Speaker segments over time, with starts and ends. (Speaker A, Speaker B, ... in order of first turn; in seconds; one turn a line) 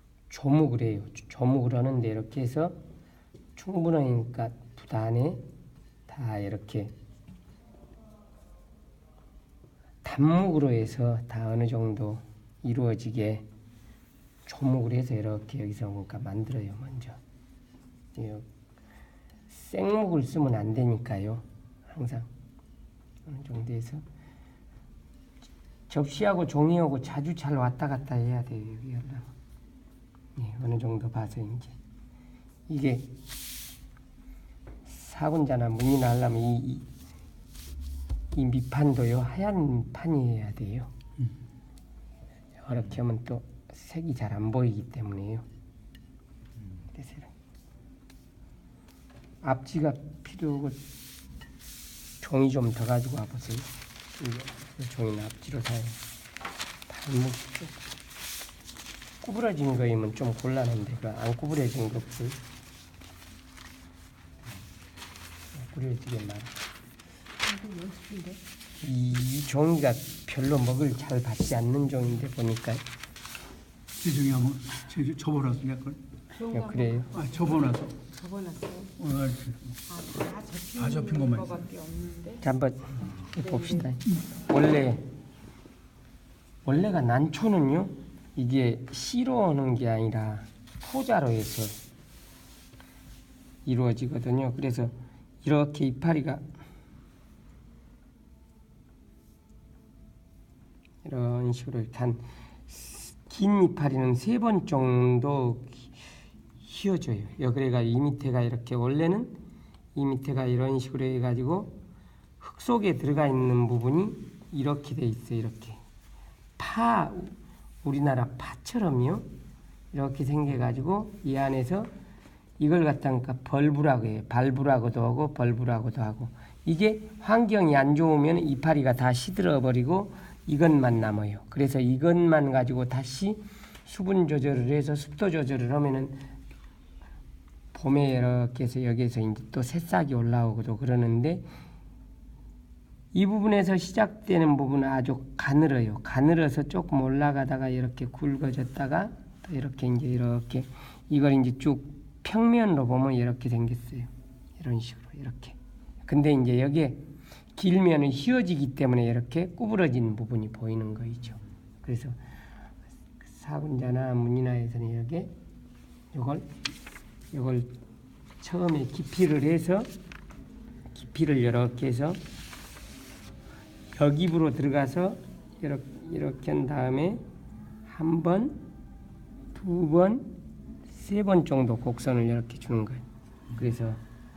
Speaker A: 0.3-2.8
Speaker A: 3.5-5.4
Speaker A: 6.1-6.9
Speaker A: 10.0-13.4
Speaker A: 14.4-17.2
Speaker A: 18.1-18.4
Speaker A: 19.5-22.3
Speaker A: 23.2-24.0
Speaker A: 25.9-29.3
Speaker A: 30.4-31.8
Speaker A: 32.7-33.1
Speaker A: 34.9-36.9
Speaker A: 38.3-40.9
Speaker A: 42.6-45.4
Speaker A: 46.9-47.3
Speaker A: 49.4-50.8
Speaker A: 52.2-56.0
Speaker A: 56.9-57.8
Speaker A: 59.2-62.4
Speaker A: 65.5-66.5
Speaker B: 67.4-68.4
Speaker A: 68.8-72.8
Speaker C: 74.0-76.0
Speaker A: 76.4-77.2
Speaker C: 77.1-78.0
Speaker B: 78.1-78.9
Speaker C: 79.0-79.7
Speaker B: 79.9-82.4
Speaker C: 80.8-81.5
Speaker A: 82.4-85.1
Speaker A: 86.6-91.8
Speaker A: 93.6-96.5
Speaker A: 101.0-105.9
Speaker A: 106.6-109.4
Speaker A: 109.9-111.8
Speaker A: 112.4-115.8
Speaker A: 116.6-119.3
Speaker A: 119.9-121.9
Speaker A: 122.6-136.2
Speaker A: 137.7-141.5
Speaker A: 143.1-162.2
Speaker A: 163.2-165.3
Speaker A: 166.1-166.5
Speaker A: 167.3-167.7
Speaker A: 168.4-169.9
Speaker A: 170.9-172.2
Speaker A: 173.9-177.2
Speaker A: 177.8-178.6
Speaker A: 179.5-180.3
Speaker A: 180.9-184.0